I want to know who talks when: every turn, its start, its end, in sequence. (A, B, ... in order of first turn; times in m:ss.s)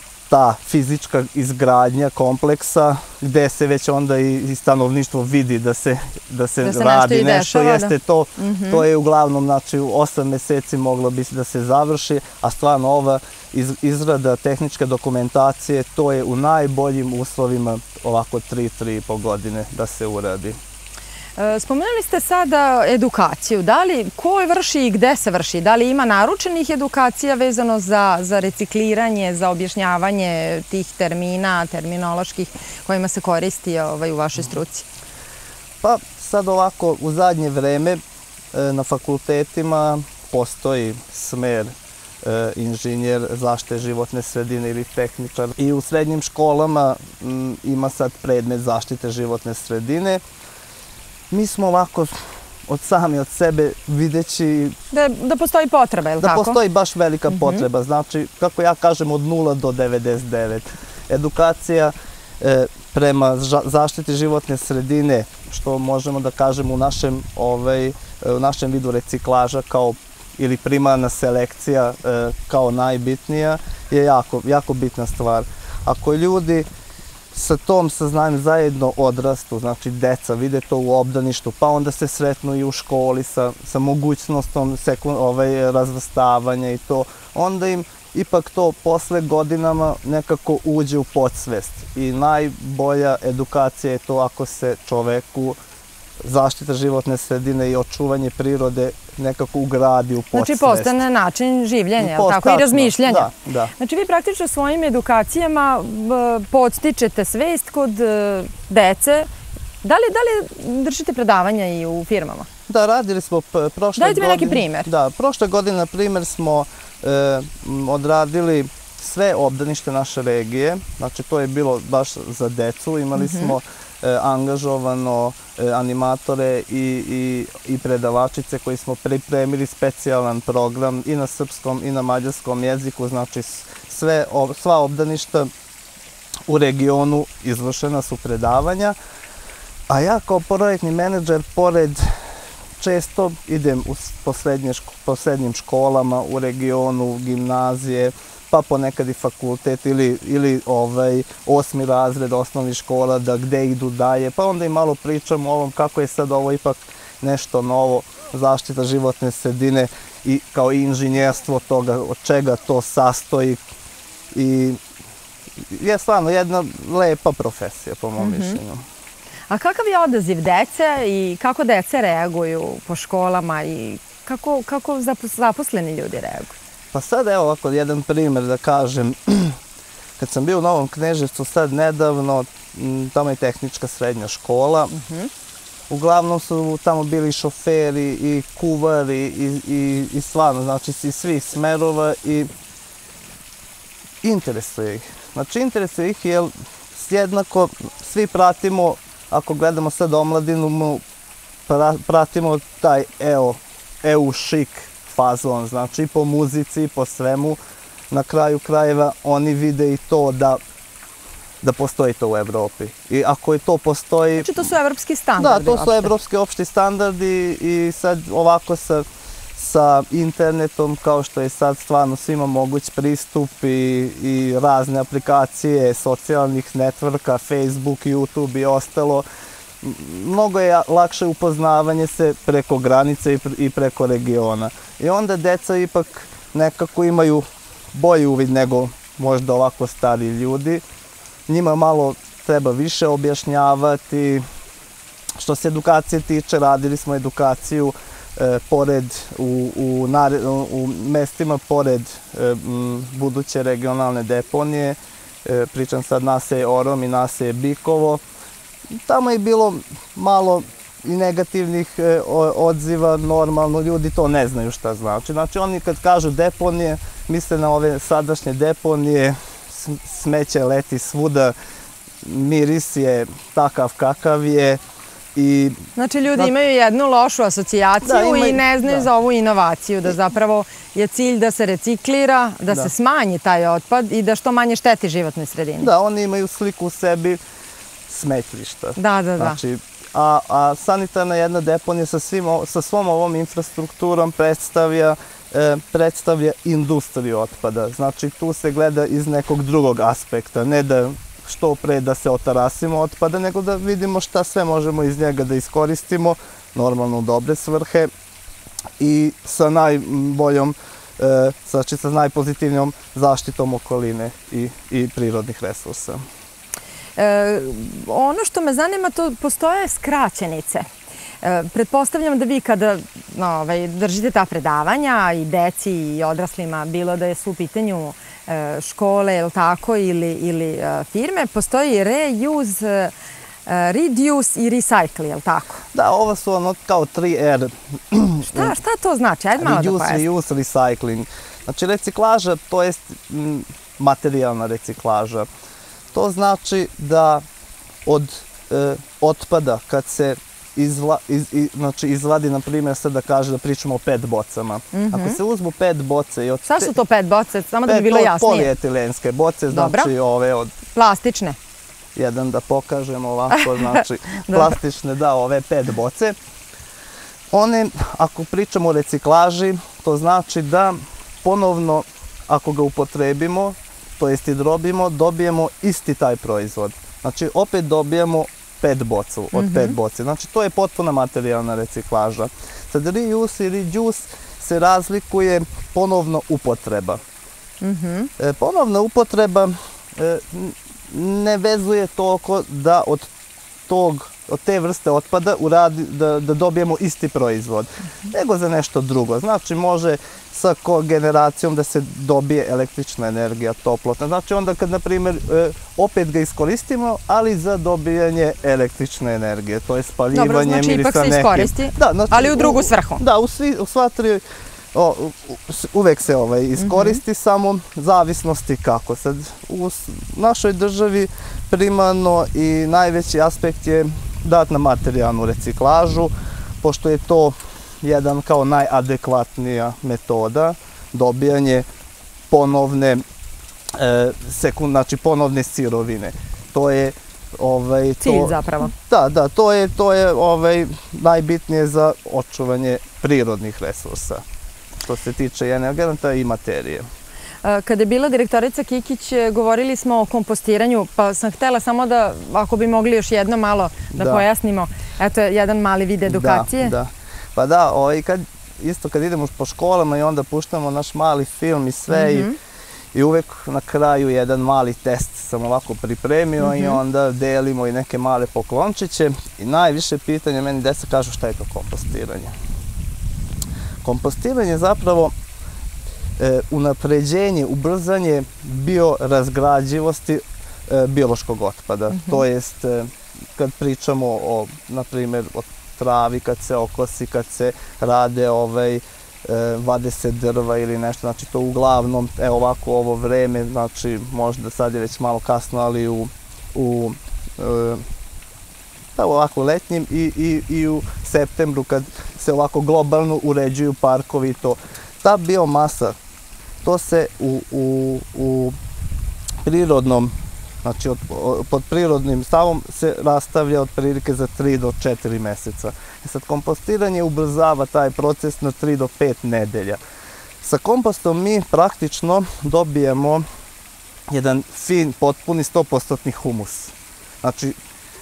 0:00.3-0:20.6 A
0:06.6-0:08.8 B
0:21.4-0:34.9 B
0:35.8-0:38.0 A
0:38.5-0:50.2 A
0:51.3-0:52.1 A
0:52.7-0:54.8 A
0:54.9-0:56.6 B
0:56.2-1:16.7 A
0:57.3-0:57.6 B
1:17.3-1:35.6 A
1:36.2-1:41.0 A
1:40.3-1:49.3 B
1:42.0-1:43.7 A
1:49.8-1:52.5 B
1:52.7-2:15.5 A
1:54.0-1:54.9 B
2:03.2-2:03.5 B
2:16.5-2:19.0 A
2:19.9-2:22.1 A
2:22.8-2:43.6 A
2:44.3-2:44.8 A
2:45.6-2:48.8 A
2:48.2-2:48.6 B
2:49.5-2:56.6 B
2:56.9-2:59.6 A
3:00.2-3:04.9 A
3:04.9-3:05.3 B
3:05.9-3:12.5 A
3:14.2-3:21.0 A
3:21.7-3:27.6 A
3:28.1-3:30.6 A
3:31.6-3:34.5 A
3:34.4-3:36.1 B
3:35.4-3:39.0 A
3:39.6-3:49.2 A
3:49.8-4:00.8 A
4:01.5-4:04.4 A
4:05.4-4:18.2 A
4:19.0-4:31.6 A
4:32.2-4:34.8 A
4:35.3-4:35.8 A
4:36.0-4:45.9 B
4:38.0-4:39.1 A
4:45.8-4:47.4 A
4:48.1-5:08.1 A
4:49.0-4:49.6 B
5:09.0-5:16.2 A
5:17.2-5:20.9 B
5:21.4-5:33.1 B
5:33.7-5:35.8 B
5:35.9-5:38.8 A
5:38.5-5:40.3 B
5:39.6-5:45.5 A
5:46.1-5:47.4 A
5:48.1-5:57.0 A
5:54.9-5:55.4 B
5:56.7-5:58.7 B
5:57.9-6:00.8 A
5:59.7-6:00.1 B
6:00.9-6:01.6 B
6:02.2-6:06.4 A
6:03.5-6:04.8 B
6:07.5-6:27.2 A
6:19.5-6:20.0 B
6:27.8-6:28.3 B
6:28.4-6:33.3 A
6:33.9-6:54.4 A
6:50.3-6:53.2 B
6:54.9-7:11.9 A
6:56.8-6:57.2 B
7:12.5-7:13.2 A
7:14.0-7:24.4 A
7:18.2-7:18.9 B
7:25.0-7:27.1 A
7:27.6-7:37.0 B
7:34.1-7:34.4 A
7:36.3-7:42.5 A
7:42.1-7:42.6 B
7:43.1-7:52.5 A
7:46.6-7:47.0 B
7:54.0-7:55.3 A
7:56.4-8:18.0 A
8:02.1-8:02.4 B
8:19.2-8:26.2 A
8:26.8-8:28.8 A
8:29.6-8:40.0 A
8:40.6-8:43.4 A
8:44.3-8:47.8 A